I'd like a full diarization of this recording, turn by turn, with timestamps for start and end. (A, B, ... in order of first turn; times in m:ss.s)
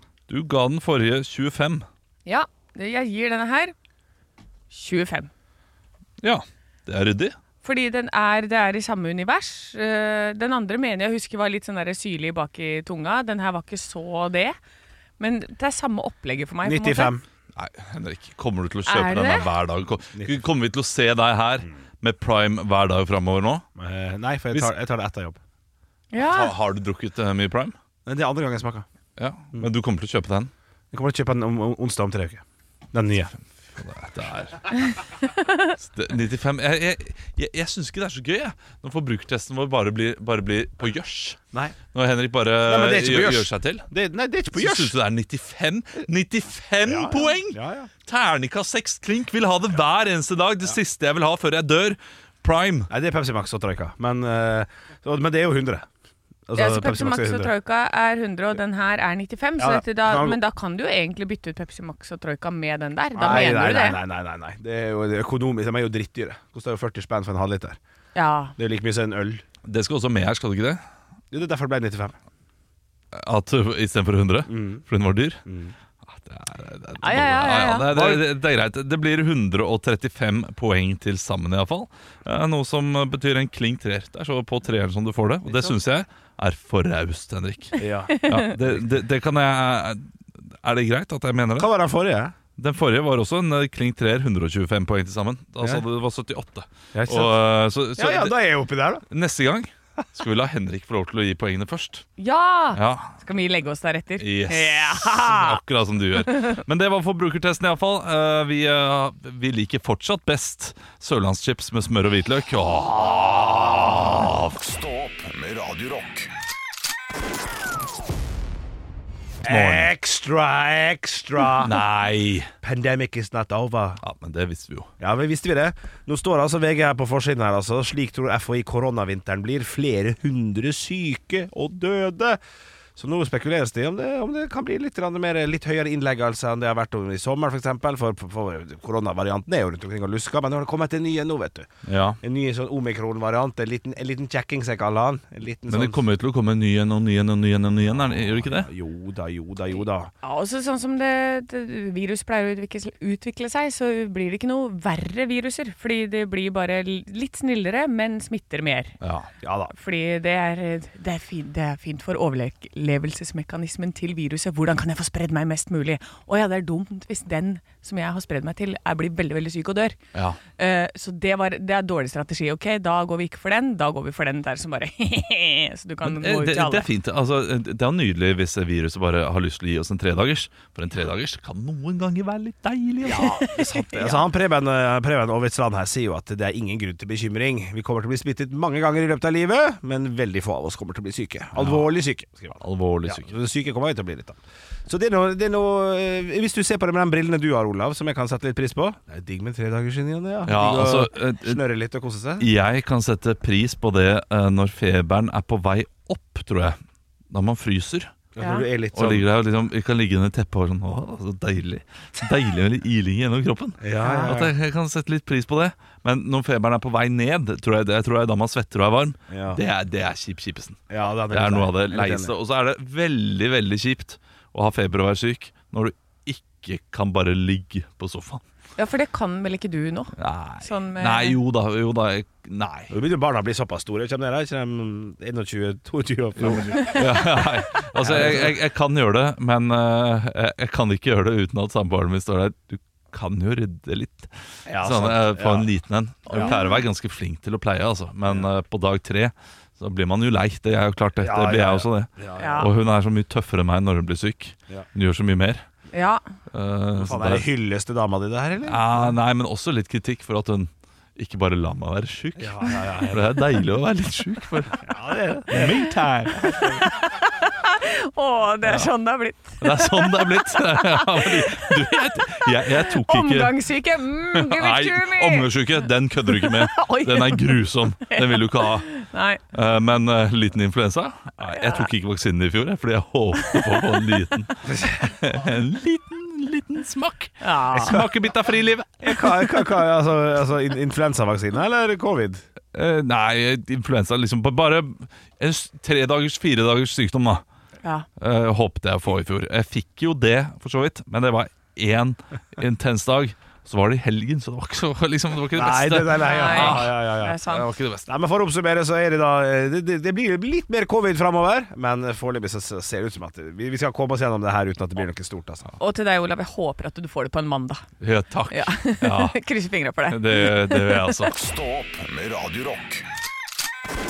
0:00.3-0:01.9 A
0:02.3-0:03.7 B
0:04.7-0:05.3 B
0:06.2-0:07.4 A
0:07.6-0:14.6 B
0:15.2-0:17.2 B
0:16.6-0:17.2 C
0:17.6-0:23.6 A
0:18.9-0:19.5 B
0:23.8-0:25.4 C
0:26.1-0:26.6 B
0:26.2-0:27.8 A
0:28.1-0:28.9 C
0:29.2-0:30.5 A
0:30.9-0:33.3 C
0:33.8-0:34.8 A
0:35.7-0:41.4 A
0:41.9-0:43.9 A
0:42.6-0:45.0 C
0:44.5-0:52.9 A
0:46.8-0:47.9 C
0:52.9-0:55.9 C
0:56.5-0:57.5 C
0:56.6-1:04.0 B
0:59.6-1:00.4 C
1:03.2-1:07.8 C
1:08.2-1:08.5 B
1:08.6-1:09.4 C
1:09.6-1:10.8 A
1:11.3-1:12.2 C
1:13.1-1:15.4 A
1:14.5-1:14.8 C
1:15.5-1:15.7 C
1:16.1-1:31.7 A
1:17.0-1:17.9 B
1:17.9-1:18.2 C
1:27.8-1:28.2 C
1:28.1-1:28.4 B
1:31.6-1:32.4 C
1:32.6-1:38.4 A
1:36.9-1:37.4 C
1:38.0-1:39.0 C
1:39.1-1:42.0 A
1:42.2-1:45.6 B
1:42.7-1:43.2 A
1:44.2-1:54.5 A
1:46.2-1:46.6 B
1:53.6-1:56.3 D
1:59.4-1:59.9 A
1:59.4-2:01.8 C
2:01.6-2:02.5 A
2:02.6-2:04.0 C
2:04.0-2:04.9 A
2:05.0-2:12.4 C
2:13.0-2:26.0 C
2:21.8-2:22.2 A
2:25.7-2:28.7 A
2:27.9-2:30.1 C
2:30.2-2:38.9 B
2:39.0-2:39.3 A
2:39.4-2:39.7 C
2:39.7-2:50.0 B
2:50.1-2:50.4 A
2:50.6-2:56.9 B
2:56.0-3:03.3 A
3:03.0-3:22.5 C
3:03.1-3:04.2 B
3:11.6-3:11.9 A
3:12.6-3:13.3 A
3:20.5-3:21.6 A
3:22.4-3:26.8 A
3:27.3-3:28.2 A
3:28.4-3:29.3 C
3:28.4-3:28.7 B
3:28.9-3:40.8 A
3:33.8-3:34.5 C
3:34.0-3:34.4 B
3:39.3-3:39.6 C
3:40.9-3:42.3 C
3:41.3-3:48.4 A
3:48.8-3:51.4 B
3:50.2-3:52.9 A
3:52.9-3:58.6 C
3:56.4-4:15.7 A
4:04.7-4:05.7 C
4:06.3-4:06.6 C
4:06.3-4:06.8 B
4:11.2-4:12.7 C
4:12.4-4:12.7 B
4:15.9-4:16.2 B
4:16.5-4:17.5 A
4:17.0-4:19.1 C
4:18.6-4:24.9 A
4:22.4-4:23.4 C
4:24.8-4:25.8 C
4:25.5-4:26.6 A
4:26.4-4:26.8 C
4:26.4-4:35.7 B
4:28.6-4:28.9 A
4:29.6-4:33.6 A
4:34.3-4:38.9 A
4:36.2-4:39.4 B
4:39.5-4:49.6 A
4:41.5-4:41.9 B
4:43.4-4:43.7 B
4:44.7-4:45.1 C
4:47.4-4:48.1 B
4:49.0-4:52.4 C
4:52.7-4:57.4 A
4:58.2-5:08.1 A
5:05.5-5:07.4 C
5:06.2-5:07.7 B
5:08.1-5:15.7 C
5:15.8-5:17.9 B
5:18.0-5:19.4 A
5:18.5-5:21.3 B
5:20.1-5:21.3 A
5:21.3-5:23.0 D